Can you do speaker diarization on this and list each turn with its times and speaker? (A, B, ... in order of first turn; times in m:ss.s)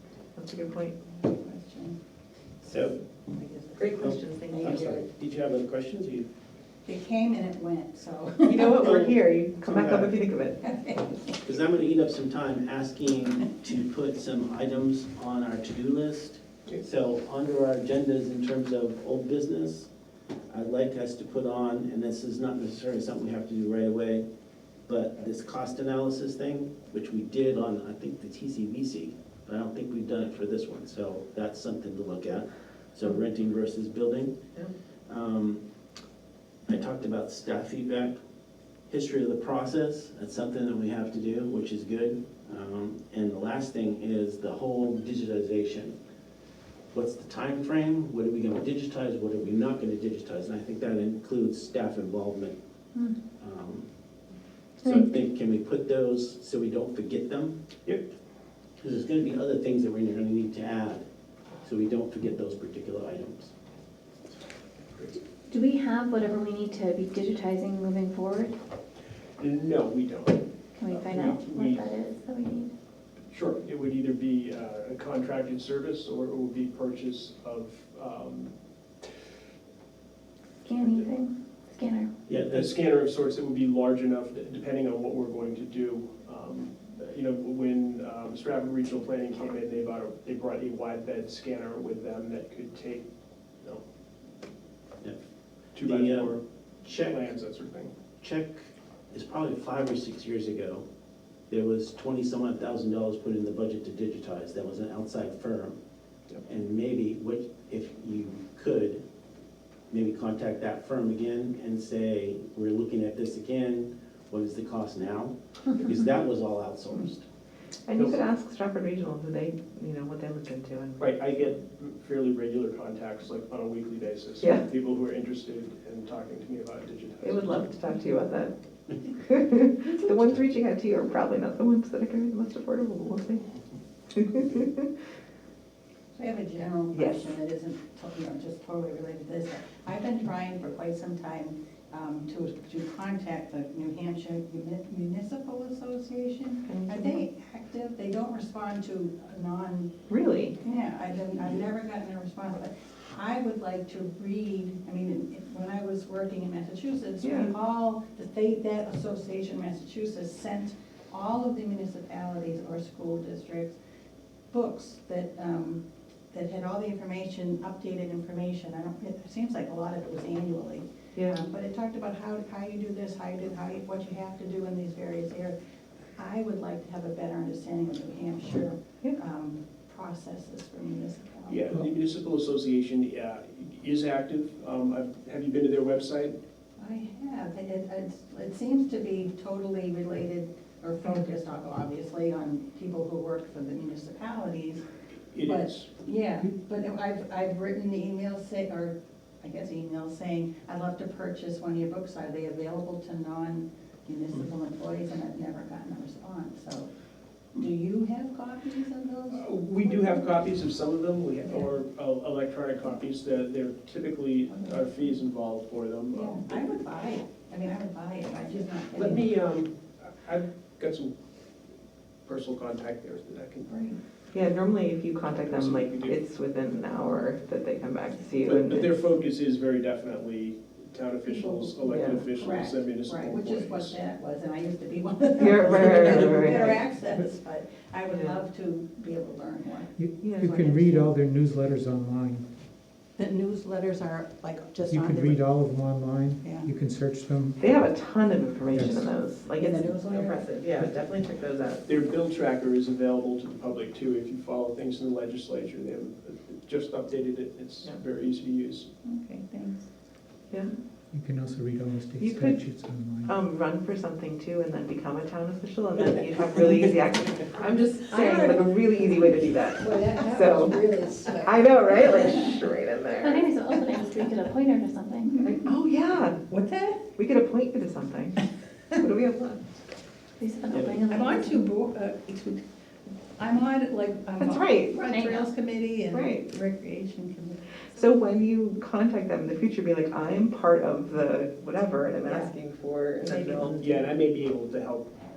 0:00.4-0:00.9 A
0:01.0-0:02.0 B
0:02.6-0:03.0 C
0:03.3-0:05.0 B
0:03.8-0:05.0 A
0:04.0-0:06.3 C
0:06.8-0:09.0 B
0:08.4-0:10.6 A
0:08.8-0:10.1 C
0:10.6-0:11.4 B
0:11.4-0:19.9 C
0:20.5-0:24.2 C
0:24.9-0:34.4 C
0:35.1-0:35.6 C
0:36.7-0:38.2 C
0:38.9-0:45.9 C
0:46.9-0:52.6 C
0:53.4-0:53.9 C
0:54.8-0:57.6 C
0:58.8-1:01.0 C
1:01.6-1:03.5 C
1:05.5-1:08.5 D
1:09.4-1:11.9 E
1:10.7-1:12.7 D
1:13.3-1:18.5 E
1:20.6-1:22.1 D
1:22.3-1:22.7 C
1:22.5-1:33.0 E
1:35.7-1:36.4 E
1:35.8-1:37.2 C
1:37.1-1:37.9 E
1:38.2-1:40.8 C
1:41.5-1:45.8 C
1:46.4-1:49.0 C
1:49.9-1:57.2 C
1:57.9-2:01.3 A
2:01.0-2:07.6 E
2:04.4-2:04.6 A
2:07.2-2:08.5 A
2:09.2-2:13.4 A
2:14.1-2:14.9 A
2:16.1-2:29.9 B
2:16.9-2:17.3 A
2:26.6-2:27.2 A
2:30.1-2:30.6 A
2:30.6-2:43.8 B
2:37.2-2:37.5 A
2:44.5-2:55.6 B
2:56.2-3:01.8 B
3:01.5-3:06.3 E
3:06.8-3:14.8 B
3:15.3-3:15.9 E
3:15.4-3:26.9 B
3:27.5-3:30.3 B
3:29.3-3:36.7 E
3:34.5-3:34.8 B
3:36.1-3:39.3 B
3:39.0-3:41.1 E
3:42.2-3:43.7 E
3:43.7-3:44.0 B
3:44.3-3:48.9 A
3:45.4-3:46.2 E
3:48.4-3:54.0 E
3:51.3-3:51.7 B
3:51.8-3:52.2 A
3:52.3-4:01.1 B
3:55.4-3:56.8 A
3:55.9-3:56.3 F
3:58.1-3:58.4 A
4:00.0-4:02.4 F
4:00.2-4:00.6 A
4:03.2-4:05.4 B
4:04.9-4:07.6 F
4:06.4-4:06.7 B
4:07.6-4:12.0 A
4:08.7-4:09.1 F
4:09.6-4:10.5 B
4:11.9-4:18.9 E
4:19.0-4:19.9 B
4:21.1-4:23.4 F
4:22.2-4:30.8 A
4:28.1-4:29.0 B
4:29.8-4:32.5 B
4:31.4-4:33.5 A
4:33.2-4:35.4 D
4:35.2-4:35.7 B
4:35.4-4:36.4 A
4:36.5-4:37.1 B
4:37.2-4:38.4 A
4:38.9-4:39.6 A
4:40.4-4:41.6 D
4:41.1-4:42.6 B
4:43.4-4:47.6 B
4:44.4-4:45.0 A
4:45.1-4:45.4 D
4:46.1-4:46.5 A
4:47.9-4:54.0 A
4:52.2-4:52.5 B
4:53.2-4:53.8 B
4:53.8-4:55.1 E